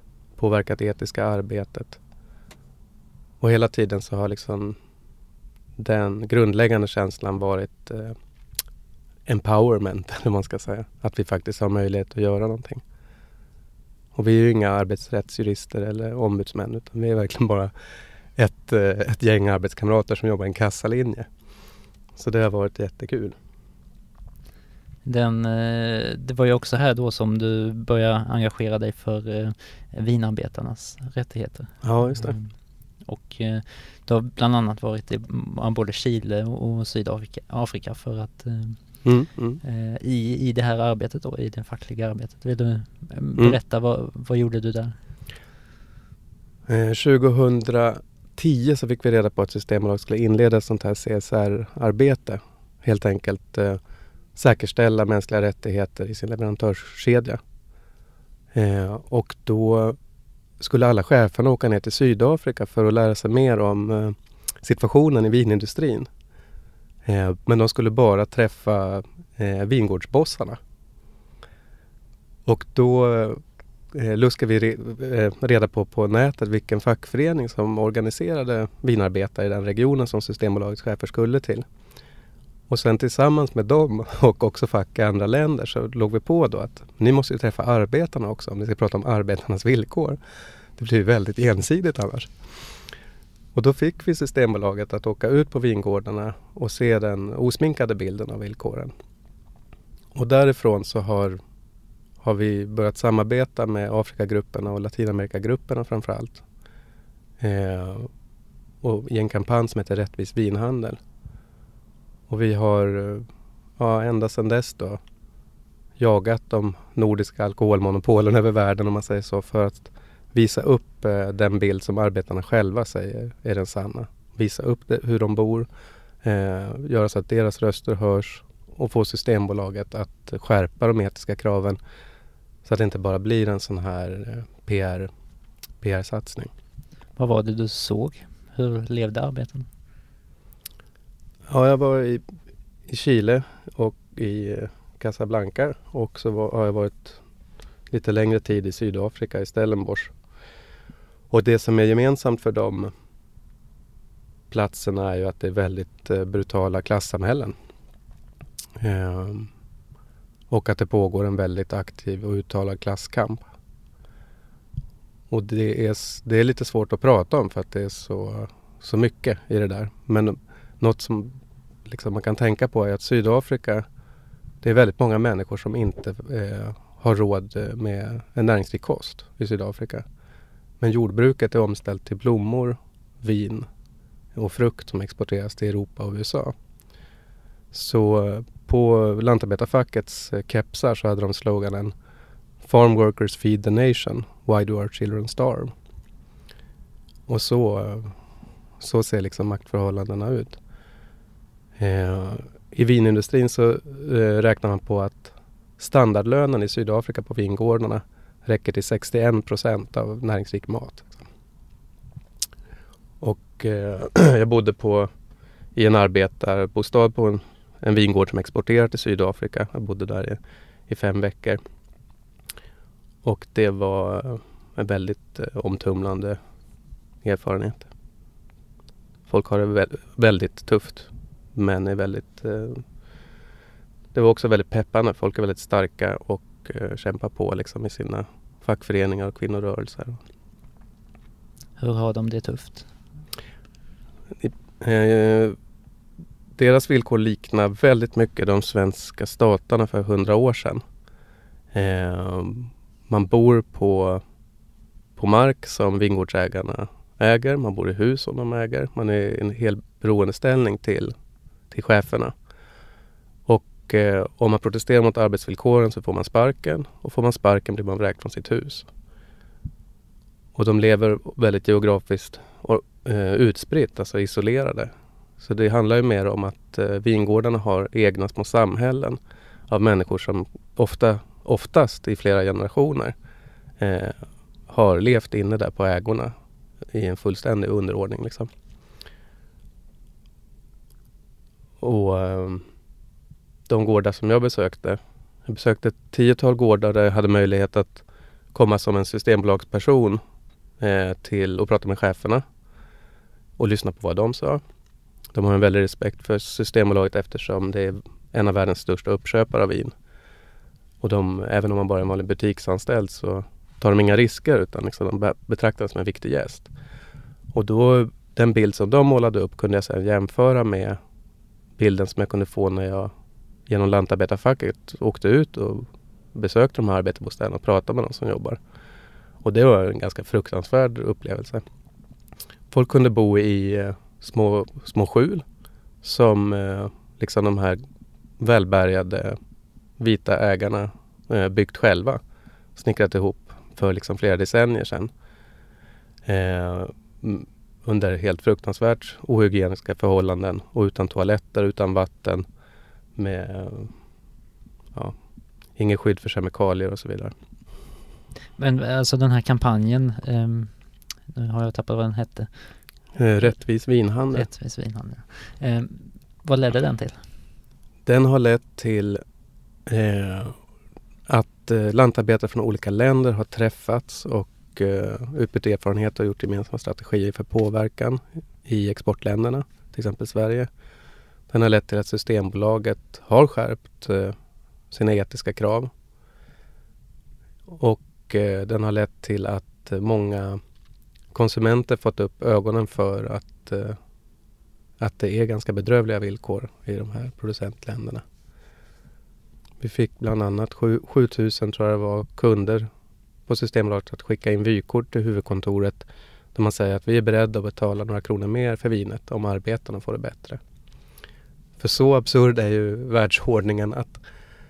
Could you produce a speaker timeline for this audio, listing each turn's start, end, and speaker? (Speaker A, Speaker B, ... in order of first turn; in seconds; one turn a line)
Speaker A: 0.4-2.0
Speaker A: 3.4-4.8
Speaker A: 5.8-8.2
Speaker A: 9.3-12.8
Speaker A: 14.1-17.7
Speaker A: 18.4-21.3
Speaker A: 22.1-23.4
Speaker B: 25.0-32.5
Speaker A: 31.8-32.4
Speaker B: 33.0-39.0
Speaker A: 39.0-39.6
Speaker B: 39.6-45.0
Speaker A: 46.7-53.8
Speaker A: 54.4-57.4
Speaker A: 58.5-60.0
Speaker A: 60.6-66.1
Speaker A: 67.0-70.6
Speaker A: 72.5-73.4
Speaker A: 73.9-81.6
Speaker A: 82.7-90.2
Speaker A: 90.8-92.3
Speaker A: 93.5-98.9
Speaker A: 100.1-101.4
Speaker A: 102.2-106.4
Speaker A: 107.4-108.1
Speaker A: 108.8-111.0
Speaker A: 112.3-113.2
Speaker A: 113.8-115.0
Speaker A: 116.0-125.7
Speaker A: 126.2-131.8
Speaker A: 132.6-135.1
Speaker A: 135.8-136.5
Speaker B: 137.2-139.7
Speaker A: 141.5-142.2
Speaker A: 142.9-147.2
Speaker A: 147.9-150.1
Speaker A: 151.3-152.9
Speaker A: 154.5-157.5
Speaker A: 158.8-159.5
Speaker A: 160.5-163.5
Speaker A: 165.3-171.3
Speaker A: 171.8-173.8
Speaker A: 174.6-180.1
Speaker A: 180.8-183.7
Speaker A: 184.3-186.5
Speaker A: 187.7-191.9
Speaker A: 192.6-195.7
Speaker A: 197.3-198.1
Speaker A: 198.8-200.6
Speaker A: 201.8-211.3
Speaker A: 213.2-215.1
Speaker A: 215.8-221.6
Speaker A: 223.2-226.4
Speaker A: 227.2-227.9
Speaker A: 229.3-232.8
Speaker A: 234.1-240.2
Speaker B: 241.8-242.9
Speaker A: 244.4-245.6
Speaker A: 246.6-250.8
Speaker A: 251.7-254.2
Speaker A: 255.2-261.1
Speaker A: 261.7-262.3
Speaker A: 263.5-268.9
Speaker A: 270.5-279.2
Speaker A: 279.7-283.1
Speaker A: 283.8-286.3
Speaker A: 286.9-288.5
Speaker A: 291.8-292.6
Speaker A: 293.7-298.0
Speaker A: 298.5-300.2
Speaker A: 300.8-302.4
Speaker A: 303.6-304.6
Speaker A: 305.3-309.9
Speaker A: 311.0-316.7
Speaker A: 317.5-321.0
Speaker A: 321.8-323.1
Speaker A: 323.7-328.6
Speaker A: 329.4-331.6
Speaker A: 332.7-335.4
Speaker A: 336.0-337.8
Speaker A: 338.4-339.4
Speaker A: 340.0-342.2
Speaker A: 342.8-345.1
Speaker A: 346.2-352.4
Speaker A: 353.1-353.9
Speaker A: 355.8-357.3
Speaker B: 358.6-360.7
Speaker B: 361.3-362.5
Speaker A: 363.1-364.4
Speaker B: 364.3-367.2
Speaker A: 368.1-369.2
Speaker A: 369.9-370.5
Speaker A: 371.3-380.7
Speaker A: 381.5-384.3
Speaker A: 384.9-385.9
Speaker A: 387.7-390.6
Speaker A: 391.3-394.0
Speaker A: 395.0-398.2
Speaker A: 399.8-402.9
Speaker A: 403.5-410.6
Speaker A: 411.8-414.2